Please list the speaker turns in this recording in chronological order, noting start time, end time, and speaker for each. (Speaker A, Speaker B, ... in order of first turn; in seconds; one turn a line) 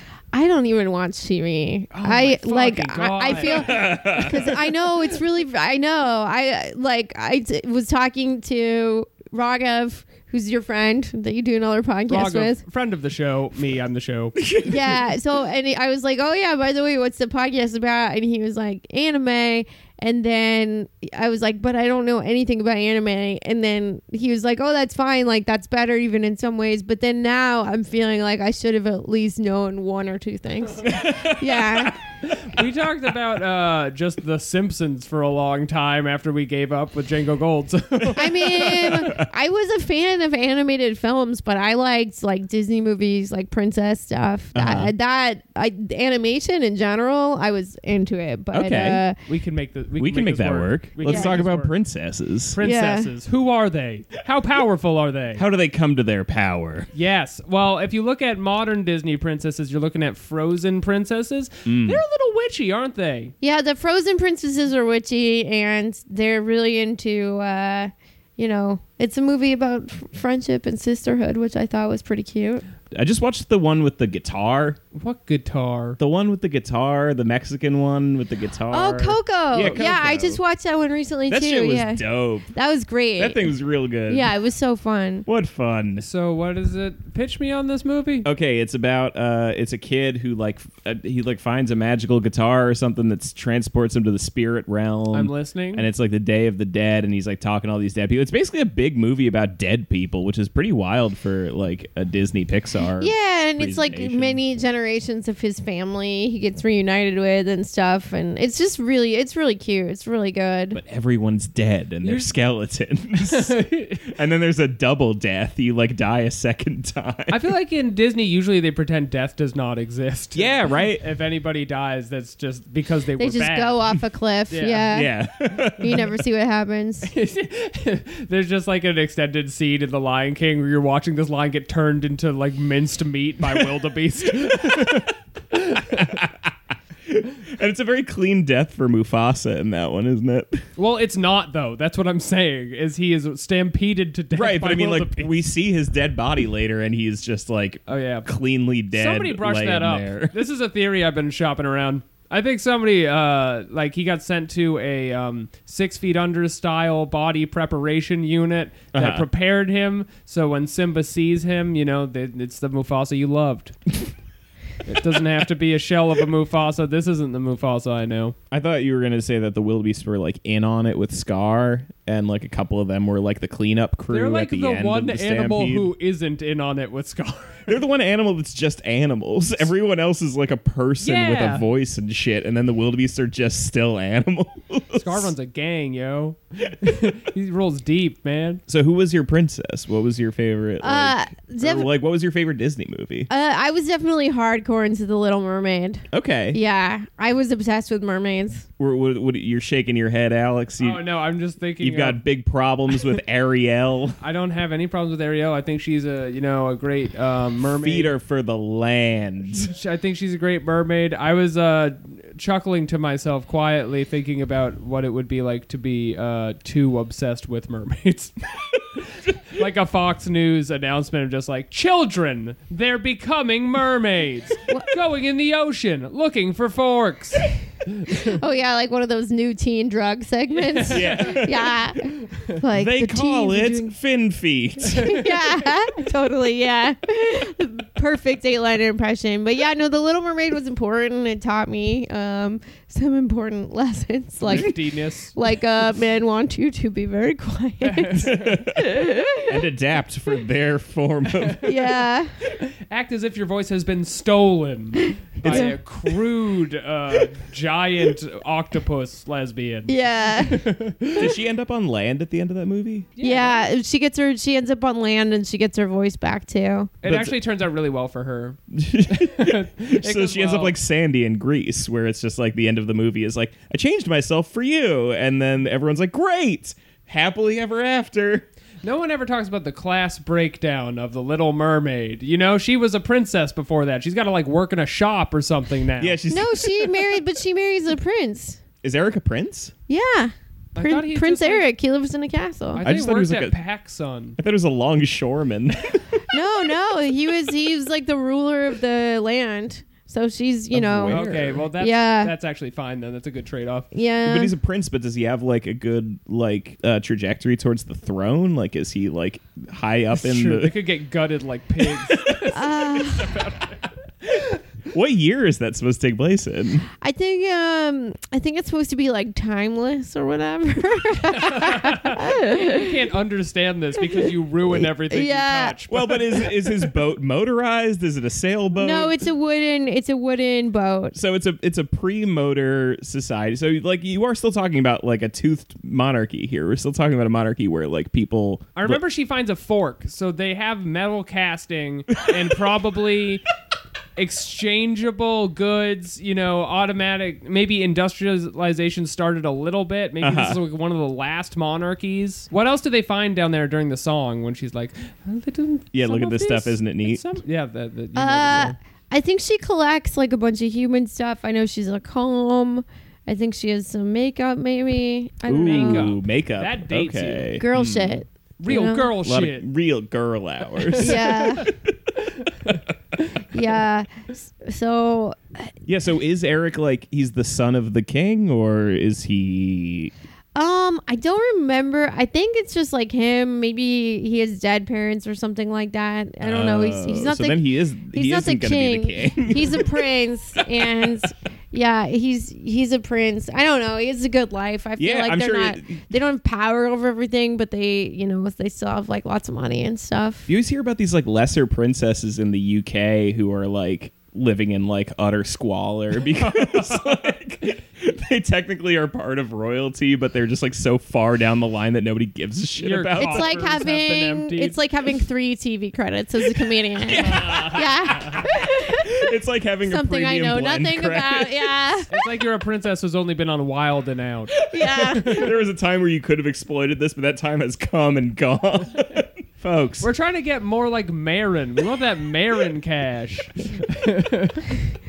Speaker A: 0.3-12.6
Speaker B: 1.9-3.8
Speaker C: 3.4-4.7
Speaker B: 12.1-14.4
Speaker C: 14.3-15.0
Speaker A: 14.6-32.0
Speaker C: 30.8-31.9
Speaker B: 32.2-38.9
Speaker C: 38.0-39.2
Speaker A: 38.1-49.2
Speaker C: 44.5-44.9
Speaker C: 48.5-49.0
Speaker B: 49.3-51.7
Speaker C: 50.0-52.6
Speaker A: 51.0-51.4
Speaker B: 52.5-55.4
Speaker A: 52.6-53.1
Speaker C: 55.3-56.9
Speaker B: 56.9-63.3
Speaker C: 61.6-62.0
Speaker A: 63.4-72.6
Speaker C: 72.9-74.8
Speaker B: 74.9-76.0
Speaker C: 76.0-80.4
Speaker A: 78.7-83.5
Speaker C: 81.3-82.5
Speaker C: 83.2-84.3
Speaker A: 84.1-85.3
Speaker C: 85.3-86.0
Speaker B: 86.0-88.3
Speaker C: 88.2-104.4
Speaker B: 95.1-95.8
Speaker A: 103.0-110.8
Speaker C: 110.7-117.4
Speaker B: 112.0-112.3
Speaker B: 113.2-114.1
Speaker B: 117.3-123.8
Speaker C: 120.3-121.0
Speaker A: 123.2-125.2
Speaker B: 124.5-124.9
Speaker C: 124.9-126.1
Speaker A: 125.8-127.1
Speaker B: 127.0-136.2
Speaker C: 134.4-135.1
Speaker C: 135.9-136.5
Speaker C: 137.1-140.6
Speaker B: 140.8-145.3
Speaker C: 144.3-150.3
Speaker B: 147.9-148.3
Speaker B: 148.9-163.8
Speaker C: 158.9-159.2
Speaker B: 164.8-168.3
Speaker C: 168.5-175.9
Speaker B: 174.1-177.8
Speaker C: 177.7-185.3
Speaker B: 181.0-181.7
Speaker B: 184.9-188.6
Speaker C: 188.7-193.3
Speaker A: 190.8-191.9
Speaker A: 193.3-198.7
Speaker C: 196.1-196.6
Speaker C: 198.8-201.0
Speaker B: 200.8-202.2
Speaker C: 201.8-204.2
Speaker B: 204.2-208.1
Speaker C: 207.8-209.7
Speaker B: 209.6-218.3
Speaker B: 218.9-228.3
Speaker A: 228.1-233.9
Speaker B: 230.5-231.3
Speaker C: 230.9-231.8
Speaker C: 232.7-235.2
Speaker A: 234.8-244.8
Speaker B: 234.9-235.2
Speaker B: 244.4-245.3
Speaker A: 245.3-249.6
Speaker B: 247.8-248.6
Speaker C: 248.1-251.7
Speaker A: 251.6-252.3
Speaker B: 252.6-261.3
Speaker C: 255.4-255.7
Speaker A: 255.4-255.8
Speaker A: 259.9-260.7
Speaker C: 261.2-263.1
Speaker B: 263.1-263.6
Speaker A: 263.2-266.9
Speaker B: 267.0-270.7
Speaker C: 267.0-267.3
Speaker C: 268.7-278.5
Speaker B: 278.8-286.2
Speaker C: 286.0-286.9
Speaker A: 286.3-288.6
Speaker C: 288.8-289.7
Speaker A: 289.9-292.8
Speaker B: 290.7-291.6
Speaker B: 292.7-294.4
Speaker C: 292.8-293.6
Speaker C: 294.4-296.4
Speaker A: 296.3-302.3
Speaker C: 300.7-301.6
Speaker B: 301.1-303.9
Speaker A: 303.9-304.5
Speaker C: 304.2-310.7
Speaker B: 310.1-313.8
Speaker C: 311.9-312.5
Speaker A: 312.5-313.4
Speaker C: 314.2-316.9
Speaker A: 317.0-323.0
Speaker B: 321.3-326.0
Speaker A: 325.1-326.8
Speaker C: 325.9-329.2
Speaker A: 328.8-331.1
Speaker C: 331.1-339.0
Speaker B: 338.7-343.4
Speaker B: 344.1-358.8
Speaker C: 350.2-350.6
Speaker C: 355.9-357.4
Speaker A: 358.1-366.1
Speaker C: 365.5-368.2
Speaker B: 365.6-367.6
Speaker A: 367.6-369.1
Speaker B: 368.6-369.7
Speaker C: 369.2-372.8
Speaker B: 370.9-371.6
Speaker A: 370.9-371.7
Speaker A: 373.5-375.7
Speaker C: 375.9-380.1
Speaker A: 380.5-387.6
Speaker C: 386.4-391.1
Speaker A: 388.1-400.5
Speaker C: 395.0-396.1
Speaker C: 400.5-413.6
Speaker B: 406.4-407.2
Speaker B: 412.8-414.8
Speaker A: 413.1-419.3
Speaker C: 417.0-421.7
Speaker B: 417.2-418.4
Speaker A: 419.9-422.1
Speaker B: 422.1-425.4
Speaker C: 424.6-430.1
Speaker A: 424.7-425.5
Speaker B: 430.0-434.7